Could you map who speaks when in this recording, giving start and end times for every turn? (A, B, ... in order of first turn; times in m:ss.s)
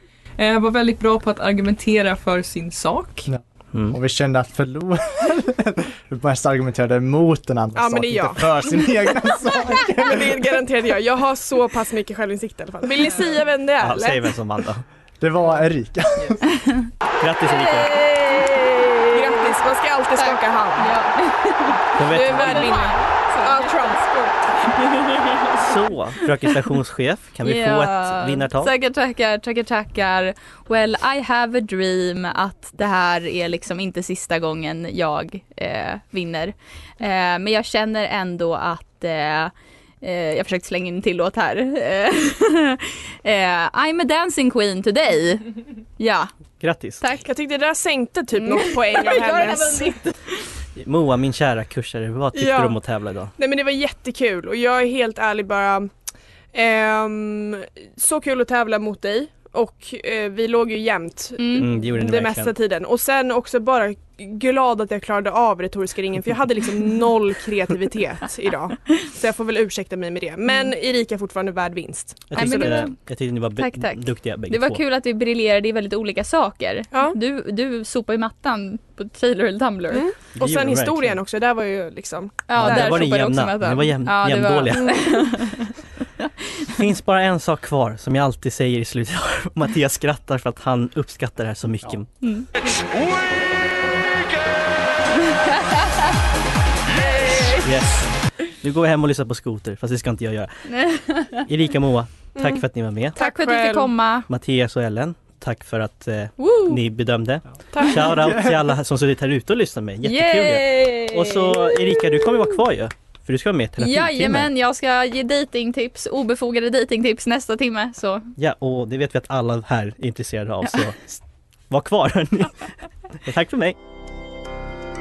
0:00.4-0:03.3 A
0:03.3-0:10.4 B
0:07.8-0:08.6 C
0:09.7-0:14.3 C
0:13.8-0:14.8 D
0:15.2-0:16.5 B
0:17.2-0:18.0 D
0:17.5-0:19.4 E
0:19.1-0:20.9 C
0:20.2-0:24.0 E
0:22.0-0:22.8 D
0:22.0-0:24.7 C
0:24.7-0:25.6 E
0:25.6-0:28.7 D
0:27.4-0:46.3 E
0:46.6-0:47.0 D
0:47.0-0:47.3 E
0:47.2-0:50.0 C
0:48.4-0:50.2 E
0:50.8-0:53.3 D
0:52.3-0:52.8 C
0:53.4-0:55.9 C
0:56.5-1:12.9 C
1:01.4-1:01.7 E
1:01.6-1:02.5 D
1:12.3-1:14.8 D
1:12.4-1:13.0 E
1:13.6-1:20.1 E
1:16.9-1:17.2 C
1:19.9-1:23.0 C
1:20.4-1:21.2 D
1:22.5-1:25.7 E
1:22.6-1:25.0 D
1:24.7-1:25.2 C
1:26.7-1:32.1 D
1:32.2-1:32.5 E
1:37.5-1:40.6 D
1:40.7-1:41.4 E
1:41.3-1:43.2 D
1:42.4-1:43.9 C
1:43.2-1:44.3 E
1:44.3-1:54.5 D
1:46.4-1:46.8 E
1:47.7-1:48.4 C
1:50.0-1:52.5 E
1:53.8-1:58.3 E
1:58.4-2:03.8 D